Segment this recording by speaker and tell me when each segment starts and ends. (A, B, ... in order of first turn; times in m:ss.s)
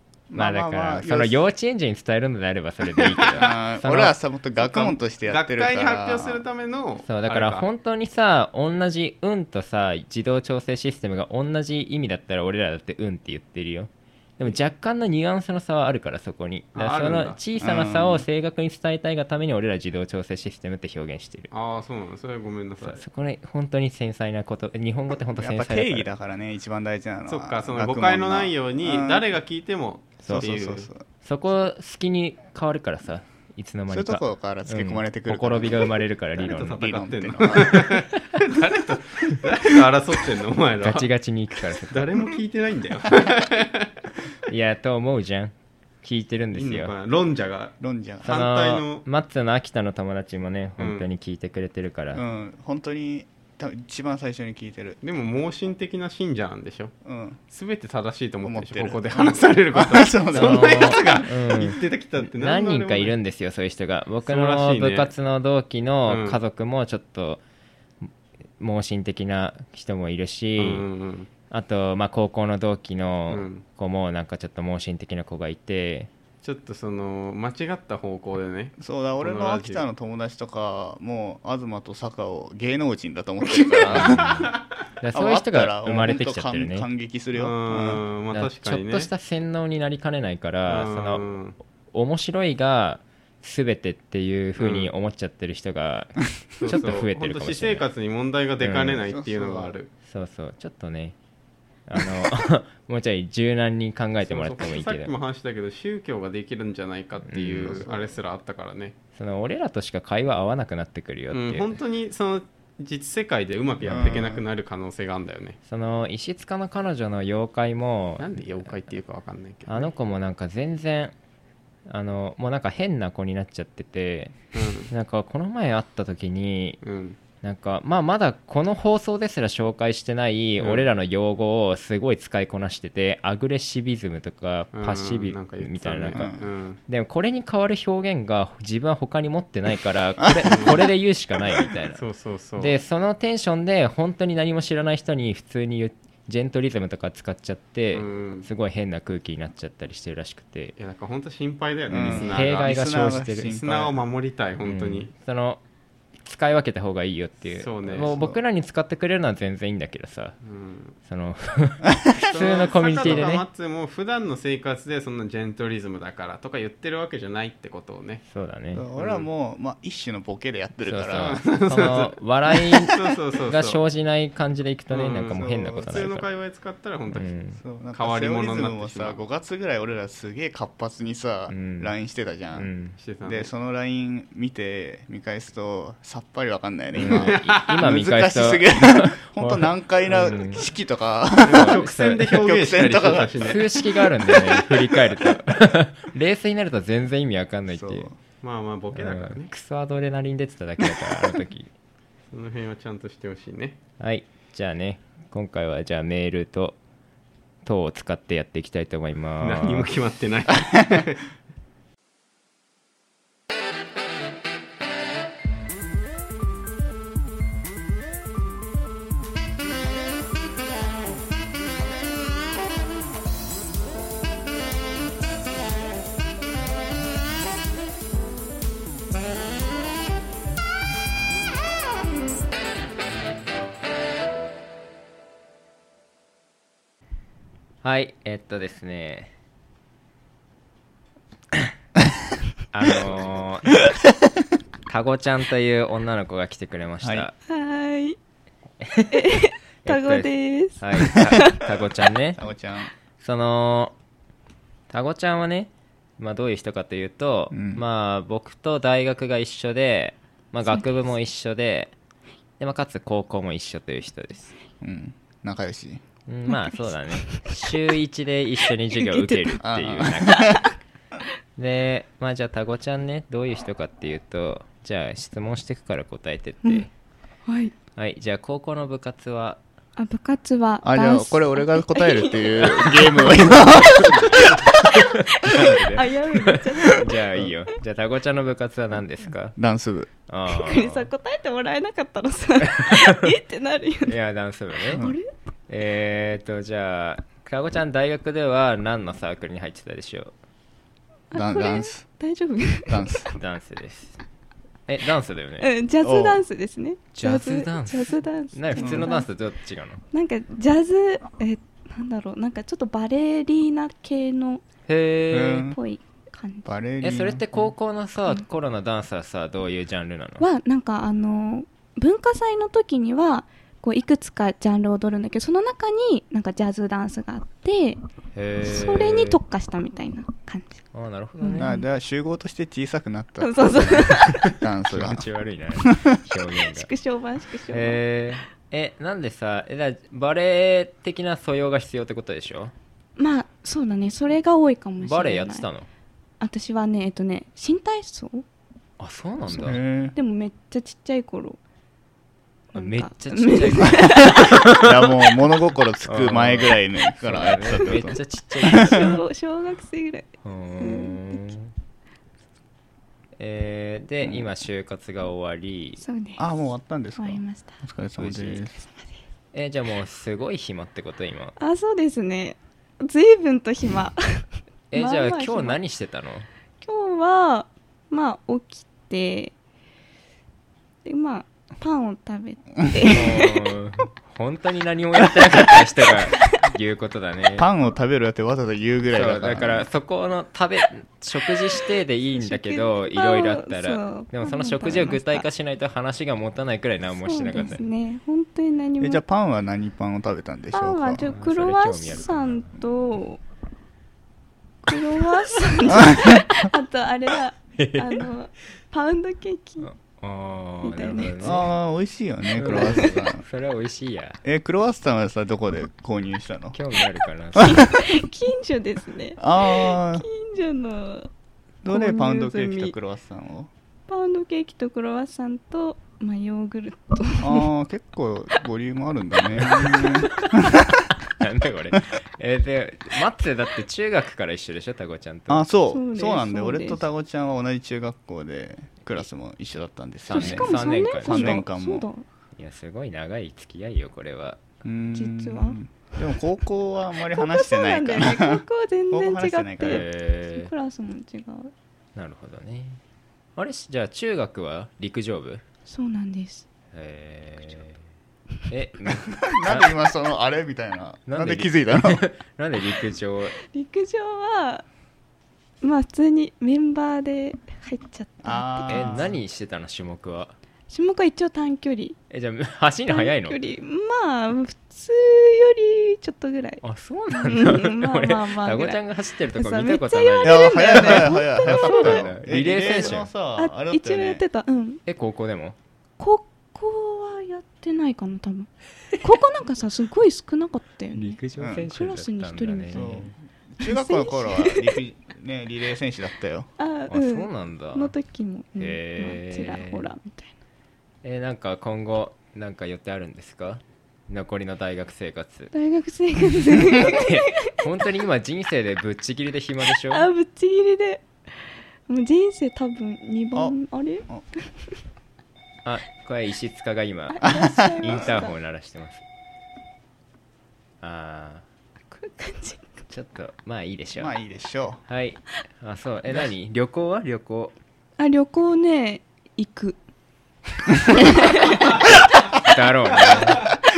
0:00.3-0:01.4 A
0:00.4-0:04.1 B
0:02.9-0:03.5 C
0:03.3-0:06.4 A
0:04.6-0:07.7 C
0:07.1-0:21.5 B
0:16.7-0:17.4 C
0:17.6-0:18.2 A
0:21.5-0:23.0 C
0:22.8-0:26.1 B
0:25.3-0:29.2 A
0:27.3-0:30.9 C
0:30.2-0:31.0 A
0:31.2-0:36.8 B
0:33.9-0:35.9 A
0:36.4-0:41.1 C
0:36.6-0:37.8 A
0:40.8-0:42.1 B
0:41.9-0:43.9 C
0:44.5-0:46.9 B
0:46.5-0:49.0 C
0:47.8-0:48.4 A
0:48.2-0:52.2 B
0:50.8-0:51.0 C
0:52.1-0:55.0 A
0:55.0-0:56.9 C
0:57.0-0:57.4 A
0:57.5-1:03.1 C
0:58.4-1:01.2 A
1:00.3-1:07.4 B
1:04.2-1:05.1 C
1:06.1-1:06.4 C
1:08.6-1:10.8 B
1:10.6-1:11.3 C
1:11.5-1:16.1 B
1:13.3-1:13.6 C
1:16.4-1:19.8 C
1:18.8-1:24.5 A
1:23.6-1:24.3 C
1:23.9-1:26.9 B
1:25.1-1:28.0 A
1:27.3-1:29.1 C
1:28.3-1:31.2 B
1:30.7-1:31.6 C
1:31.9-1:37.9 B
1:34.6-1:34.9 C
1:36.6-1:39.9 C
1:38.6-1:39.0 B
1:39.1-1:39.7 A
1:40.0-1:41.1 B
1:41.9-1:45.1 B
1:44.2-1:48.9 C
1:47.3-1:47.8 B
1:47.6-1:48.2 A
1:49.1-1:51.7 B
1:51.3-1:55.6 C
1:53.8-1:54.4 A
1:55.7-1:58.8 B
1:58.2-1:59.9 C
1:59.7-2:01.1 B
2:01.9-2:04.3 B
2:04.5-2:04.9 C
2:04.9-2:06.8 B
2:06.8-2:07.2 C
2:07.4-2:16.3 B
2:10.6-2:10.9 C
2:14.7-2:16.8 C
2:16.1-2:16.4 A
2:16.9-2:22.0 B
2:20.5-2:20.8 C
2:21.9-2:22.8 C
2:22.6-2:30.7 B
2:27.9-2:28.5 C
2:30.8-2:35.1 C
2:31.9-2:34.0 A
2:32.0-2:33.5 B
2:34.6-2:35.6 B
2:36.2-2:40.4 B
2:37.6-2:38.1 C
2:38.1-2:38.4 A
2:40.4-2:40.9 C
2:41.0-2:43.4 B
2:42.2-2:43.2 A
2:42.2-2:48.2 C
2:48.3-2:48.8 B
2:48.7-2:51.4 A
2:49.0-2:49.3 C
2:50.8-2:53.0 B
2:51.1-2:53.8 C
2:53.5-2:56.3 B
2:54.9-2:57.3 C
2:55.3-2:56.1 A
2:57.1-2:57.6 B
2:57.6-3:02.7 A
2:57.9-2:59.2 C
3:01.5-3:01.9 B
3:02.5-3:03.0 B
3:03.0-3:03.5 C
3:03.2-3:13.6 A
3:06.9-3:10.6 B
3:07.0-3:07.7 C
3:11.4-3:13.7 C
3:11.5-3:12.3 B
3:13.4-3:18.1 B
3:17.7-3:18.2 A
3:18.4-3:19.5 C
3:18.9-3:21.7 B
3:22.3-3:23.8 C
3:24.0-3:26.8 B
3:27.6-3:29.9 B
3:29.4-3:31.2 C
3:57.8-3:59.3 B
4:02.7-4:03.7 B
4:04.9-4:07.3 B
4:07.0-4:07.3 A
4:07.4-4:08.2 D
4:08.8-4:09.1 B
4:09.1-4:11.6 D
4:09.8-4:12.4 B
4:12.4-4:12.9 A
4:13.2-4:13.9 B
4:14.9-4:21.9 B
4:17.5-4:17.8 A
4:22.6-4:24.5 B
4:24.8-4:26.0 A
4:26.3-4:30.6 B
4:29.0-4:29.6 D
4:29.6-4:30.6 A
4:30.3-4:30.6 D
4:31.6-4:36.9 B
4:37.4-4:37.7 D
4:38.0-4:39.6 B
4:40.0-4:43.2 D
4:40.8-4:44.7 A
4:44.0-4:44.4 B
4:45.4-4:49.5 B
4:45.5-4:47.1 D
4:49.6-4:50.1 A
4:50.3-4:51.1 B
4:50.5-4:54.2 D
4:54.0-4:55.0 B
4:54.9-4:55.3 D
4:55.7-5:00.3 B
5:01.3-5:03.3 D
5:01.3-5:02.1 A
5:02.9-5:03.3 A
5:03.3-5:04.2 B
5:04.9-5:05.7 B
5:05.6-5:09.3 D
5:06.0-5:06.4 A
5:07.1-5:10.0 B
5:08.8-5:09.1 A
5:10.1-5:14.6 D
5:14.9-5:15.7 B
5:15.3-5:15.8 A
5:15.7-5:16.7 D
5:16.6-5:17.7 A
5:17.0-5:20.4 B
5:20.4-5:28.0 D
5:28.3-5:29.4 B
5:28.6-5:30.8 D
5:30.9-5:31.7 B
5:31.4-5:31.8 D
5:31.6-5:35.2 A
5:33.4-5:34.5 D
5:34.1-5:36.9 B
5:36.6-5:38.0 D
5:37.7-5:42.7 B
5:43.2-5:45.6 D
5:45.0-5:45.9 B
5:46.4-5:48.4 D
5:49.0-5:49.8 B
5:49.5-5:50.1 A
5:50.1-5:51.6 D
5:52.7-5:54.8 D
5:52.7-5:54.9 B
5:54.3-5:58.2 A
5:56.0-5:59.1 B
5:57.8-6:01.4 D
5:58.7-5:59.2 A
6:00.4-6:01.7 B
6:03.4-6:06.0 B
6:06.0-6:06.4 D
6:06.4-6:08.8 A
6:07.2-6:07.8 D
6:08.2-6:08.6 B
6:08.9-6:09.1 D
6:09.5-6:11.5 B
6:11.6-6:15.8 D
6:14.9-6:16.5 B
6:16.8-6:19.5 D
6:21.0-6:23.6 D
6:23.1-6:27.7 B
6:27.6-6:29.9 A
6:29.1-6:37.8 B
6:32.3-6:35.4 D
6:37.2-6:39.2 D
6:39.0-6:41.3 A
6:40.7-6:43.4 D
6:41.3-6:42.8 B
6:44.8-6:49.9 D
6:45.9-6:46.6 A
6:47.8-6:48.2 B
6:49.8-6:51.7 B
6:50.8-6:51.6 D
6:51.4-6:53.4 A
6:52.5-6:54.4 B
6:52.7-6:53.0 D
6:54.4-6:56.8 A
6:56.7-6:57.9 B
6:57.6-6:58.0 A
6:57.6-7:01.3 D
6:59.4-7:00.2 A
7:01.8-7:03.7 A
7:01.9-7:02.9 D
7:04.1-7:07.7 D
7:07.4-7:11.1 A
7:09.8-7:10.4 B
7:11.4-7:15.7 B
7:15.5-7:22.1 A
7:15.9-7:17.0 D
7:20.2-7:21.6 B
7:20.3-7:22.2 D
7:22.6-7:24.6 B
7:24.8-7:30.1 A
7:25.1-7:25.8 D
7:27.3-7:31.7 D
7:29.8-7:30.7 B
7:32.2-7:33.0 B
7:33.6-7:35.6 B
7:35.9-7:36.6 D
7:36.9-7:38.0 B
7:38.7-7:39.9 B
7:39.2-7:42.2 A
7:41.3-7:43.5 B
7:43.7-7:44.8 D
7:45.8-7:49.2 D
7:48.4-7:49.3 A
7:48.9-7:50.5 B
7:50.9-7:52.2 D
7:52.3-7:53.6 B
7:53.1-7:59.0 D
7:56.8-8:03.3 B
7:59.6-8:05.0 D
8:00.4-8:04.4 A
8:05.0-8:05.8 B
8:06.2-8:08.7 D
8:09.2-8:13.2 D
8:11.1-8:13.3 B
8:11.6-8:11.9 A
8:12.9-8:16.7 A
8:13.8-8:15.0 D
8:16.8-8:20.5 D
8:17.1-8:18.1 B
8:18.8-8:20.1 B
8:21.2-8:25.7 B
8:25.7-8:27.8 D
8:26.9-8:30.3 B
8:30.1-8:31.3 D
8:32.1-8:34.2 D
8:35.8-8:39.2 B
8:37.3-8:38.5 D
8:37.4-8:38.2 A
8:41.0-8:41.6 B
8:42.1-8:42.9 D
8:43.1-8:44.3 B
8:44.1-8:45.0 A
8:45.1-8:47.7 B
8:48.2-8:50.0 D
8:51.1-8:51.9 D
8:52.6-8:53.6 B